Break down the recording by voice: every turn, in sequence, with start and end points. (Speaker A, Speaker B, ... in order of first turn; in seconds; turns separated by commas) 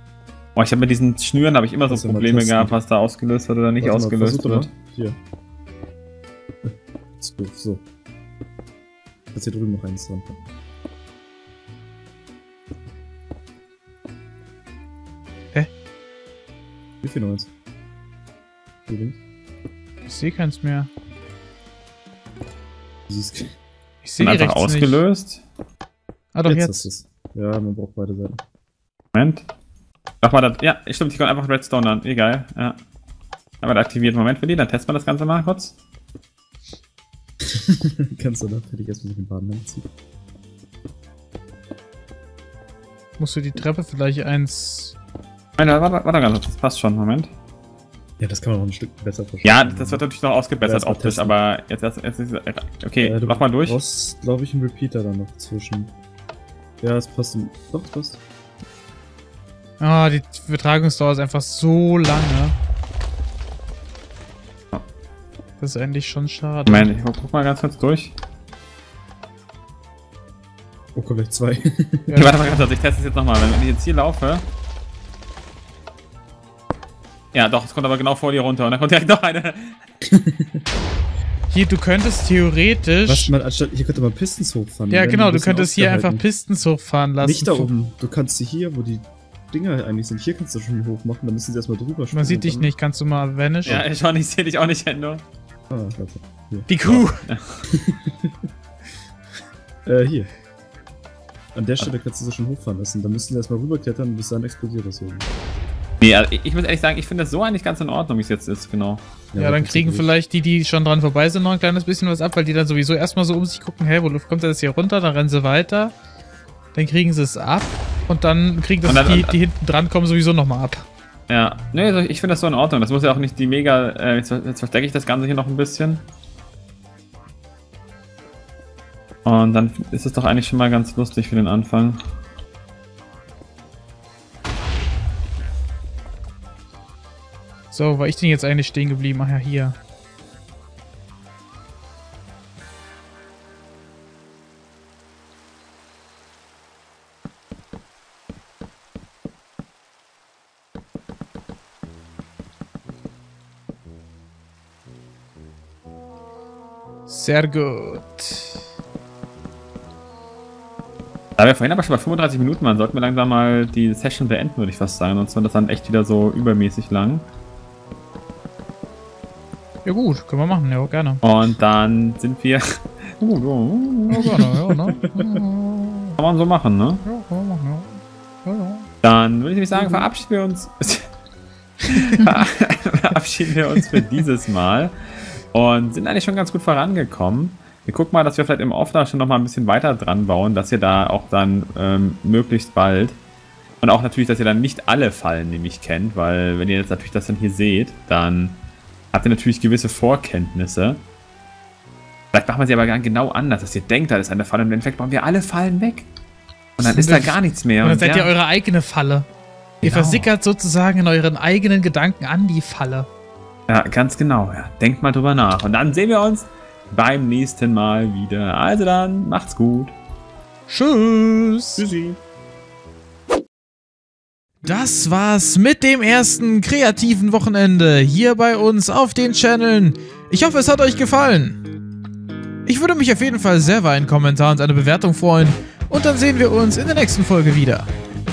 Speaker A: 0.6-4.7, Speaker B: 1.9-2.8, Speaker B: 3.8-5.2, Speaker B: 6.6-7.8, Speaker B: 9.3-10.4, Speaker B: 17.0-17.5, Speaker B: 18.9-19.2, Speaker C: 20.1-20.9, Speaker B: 23.1-23.5, Speaker C: 24.0-25.0, Speaker A: 24.2-25.4, Speaker C: 26.3-26.9, Speaker B: 26.4-28.4, Speaker A: 29.1-29.4, Speaker A: 30.2-32.8, Speaker A: 33.6-35.7, Speaker B: 37.4-39.9, Speaker C: 43.2-45.0, Speaker A: 45.6-47.3, Speaker B: 48.2-50.0, Speaker A: 49.4-53.8, Speaker B: 50.6-51.3, Speaker B: 53.0-55.9, Speaker B: 56.8-58.2, Speaker C: 59.8-62.5, Speaker C: 65.6-66.9, Speaker A: 66.7-68.1, Speaker B: 70.9-72.2, Speaker C: 72.1-72.3, Speaker A: 72.1-74.4, Speaker A: 77.3-79.8, Speaker B: 80.0-80.7, Speaker C: 81.5-83.3, Speaker B: 83.0-86.2, Speaker C: 84.9-87.7, Speaker B: 87.2-92.7, Speaker C: 92.1-93.8, Speaker A: 93.6-95.2, Speaker B: 95.7-96.7, Speaker C: 96.7-97.2, Speaker A: 96.8-97.6, Speaker B: 97.7-98.4, Speaker B: 99.8-100.3, Speaker B: 101.5-105.3, Speaker A: 106.0-109.0, Speaker B: 109.3-110.1, Speaker C: 109.4-115.9, Speaker C: 116.7-120.9, Speaker A: 118.8-119.3, Speaker A: 121.3-126.0, Speaker A: 129.2-132.0, Speaker C: 137.7-139.8, Speaker C: 157.1-158.6, Speaker A: 161.4-167.2, Speaker C: 169.8-171.2, Speaker A: 171.2-174.5, Speaker C: 174.1-176.2, Speaker B: 174.9-175.4, Speaker A: 176.2-177.0, Speaker C: 177.0-178.9, Speaker A: 179.0-181.1, Speaker A: 181.9-193.2, Speaker A: 193.8-198.6, Speaker A: 199.1-201.0, Speaker A: 202.3-206.1, Speaker A: 206.8-208.3, Speaker C: 206.8-209.3, Speaker A: 209.8-210.3, Speaker C: 209.8-213.1, Speaker A: 213.7-219.9, Speaker C: 220.7-221.8, Speaker B: 221.8-222.2, Speaker C: 224.6-231.6, Speaker C: 232.7-237.9